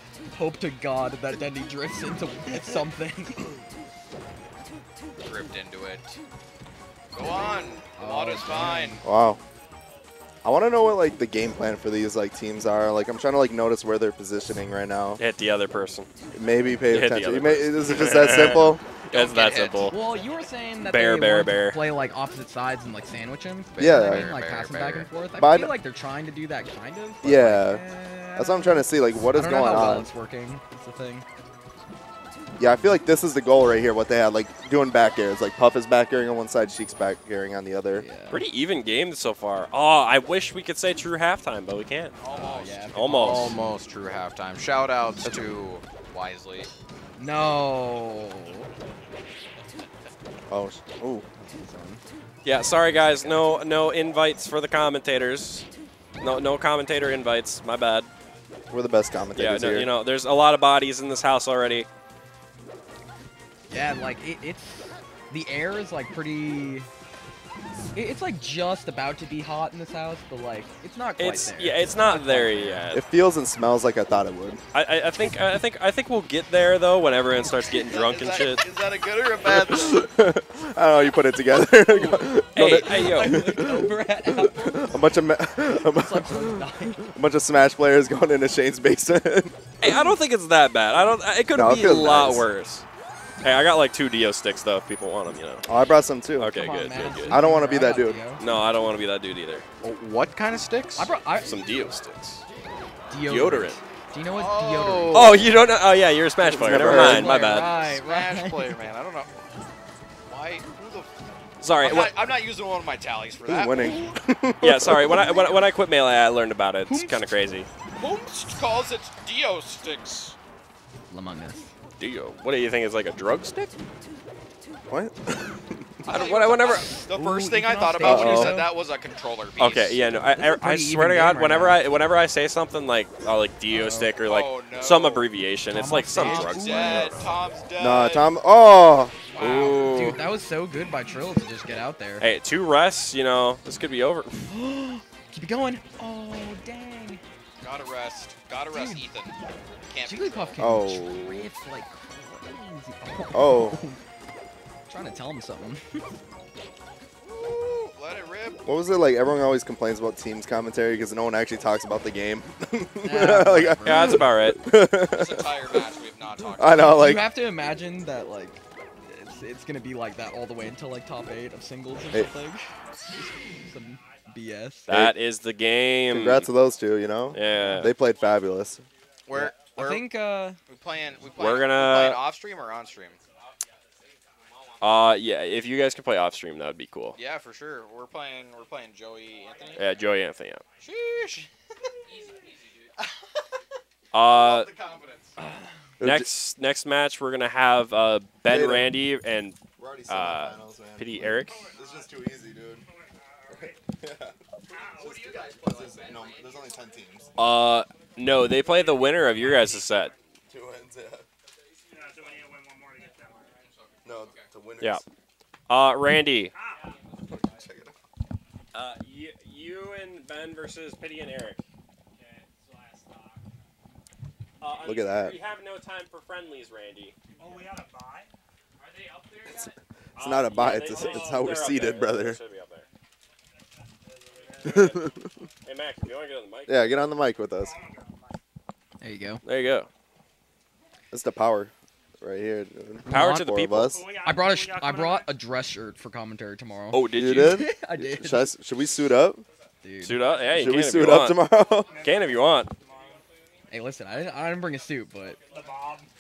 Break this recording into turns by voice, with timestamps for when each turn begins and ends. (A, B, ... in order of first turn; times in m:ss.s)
0:00.3-0:03.5 A
0:05.2-0:06.2 B
0:07.1-0:09.0 B
0:08.0-0:09.0 A
0:09.0-0:09.4 C
0:10.4-0:15.2 C
0:15.2-0:16.1 D
0:16.3-0:18.8 C
0:16.9-0:20.0 D
0:19.1-0:20.0 B
0:19.9-0:31.2 A
0:20.8-0:21.8 D
0:23.8-0:25.1 B
0:23.8-0:24.3 C
0:25.4-0:25.8 C
0:27.2-0:27.8 C
0:28.4-0:30.1 C
0:32.6-0:38.0 C
0:37.9-0:38.4 A
0:38.3-0:42.2 D
0:42.2-0:46.7 B
0:42.3-0:43.6 A
0:42.9-0:43.6 D
0:47.2-0:48.7 A
0:50.5-0:51.3 C
0:51.4-0:52.0 A
0:52.4-0:55.7 D
0:53.0-0:53.5 A
0:56.2-0:58.1 D
0:58.7-0:59.9 C
0:59.3-1:01.9 D
1:03.7-1:06.9 A
1:07.9-1:12.9 A
1:11.2-1:13.0 D
1:12.9-1:14.6 C
1:14.7-1:18.6 D
1:17.7-1:20.0 B
1:19.4-1:29.6 C
1:21.7-1:25.1 A
1:22.5-1:23.5 D
1:25.6-1:27.0 A
1:29.8-1:32.8 D
1:31.5-1:32.5 C
1:33.4-1:35.7 D
1:35.7-1:36.5 C
1:36.4-1:37.4 D
1:36.5-1:38.4 A
1:37.3-1:38.2 C
1:38.4-1:39.6 D
1:39.8-1:41.1 B
1:41.0-1:41.8 A
1:41.4-1:42.4 D
1:43.1-1:45.5 A
1:43.3-1:43.8 D
1:44.3-1:45.5 B
1:45.1-1:47.7 D
1:46.4-1:47.4 C
1:46.6-1:48.8 A
1:47.3-1:49.4 B
1:50.3-1:51.1 B
1:51.6-1:52.1 D
1:51.8-1:54.1 B
1:53.4-1:55.3 C
1:54.6-1:57.7 D
1:56.9-1:57.3 A
1:58.0-2:00.4 B
2:01.1-2:01.7 A
2:02.0-2:03.7 D
2:04.9-2:05.9 C
2:06.0-2:10.1 B
2:06.1-2:07.0 D
2:07.0-2:08.7 A
2:08.0-2:08.6 C
2:09.6-2:17.1 D
2:10.3-2:11.9 A
2:13.7-2:14.1 A
2:14.2-2:15.3 B
2:15.7-2:17.3 A
2:16.2-2:18.3 B
2:17.8-2:19.2 C
2:19.3-2:20.1 B
2:19.4-2:22.3 A
2:19.4-2:20.2 D
2:22.2-2:24.5 D
2:24.5-2:27.2 A
2:27.6-2:29.4 B
2:28.7-2:29.1 A
2:29.9-2:30.6 B
2:30.0-2:34.0 A
2:30.6-2:31.5 C
2:33.3-2:33.8 C
2:34.9-2:36.1 A
2:37.2-2:38.6 B
2:38.6-2:45.9 C
2:43.0-2:44.2 A
2:43.8-2:44.6 D
2:45.0-2:47.0 B
2:46.5-2:47.3 C
2:46.8-2:54.9 A
2:53.9-2:54.3 E
2:54.9-2:56.5 D
2:54.9-2:55.2 C
2:56.1-2:58.8 C
2:57.3-2:58.0 D
2:59.3-3:00.1 B
2:59.4-3:00.6 A
3:00.7-3:03.2 B
3:01.4-3:02.2 D
3:03.2-3:03.5 E
3:04.8-3:07.2 D
3:07.2-3:09.9 B
3:09.4-3:10.0 E
3:09.7-3:10.6 D
3:10.7-3:11.0 E
3:10.8-3:11.5 B
3:12.0-3:12.7 B
3:14.1-3:14.7 D
3:14.3-3:15.3 B
3:15.4-3:15.6 A
3:16.0-3:16.3 C
3:16.0-3:21.7 D
3:18.5-3:19.0 C
3:19.8-3:22.9 C
3:21.5-3:22.1 E
3:22.9-3:23.8 E
3:23.5-3:24.4 C
3:24.7-3:25.6 E
3:24.7-3:26.5 B
3:25.0-3:27.4 C
3:27.4-3:30.1 D
3:28.3-3:30.2 E
3:30.5-3:31.3 C
3:31.9-3:33.7 E
3:33.6-3:34.4 B
3:34.0-3:35.0 C
3:35.7-3:36.6 D
3:36.6-3:37.0 E
3:37.2-3:38.0 C
3:38.7-3:41.6 D
3:44.6-3:47.2 D
3:44.8-3:45.4 C
3:47.4-3:48.3 E
3:49.5-3:52.4 C
3:50.2-3:52.9 D
3:54.0-3:55.2 E
3:54.6-3:55.1 D
3:54.7-3:55.3 C
3:55.6-3:56.8 D
3:56.7-3:57.8 C
3:57.6-3:58.1 E
3:59.0-3:59.4 A
3:59.4-3:59.9 D
4:01.1-4:04.1 C
4:03.1-4:04.0 D
4:03.1-4:03.4 A
4:03.9-4:05.3 E
4:04.2-4:08.5 A
4:06.9-4:07.6 D
4:07.1-4:09.4 C
4:09.8-4:10.2 A
4:10.0-4:12.7 D
4:10.5-4:11.9 C
4:11.6-4:13.3 E
4:13.7-4:15.4 A
4:15.4-4:16.1 E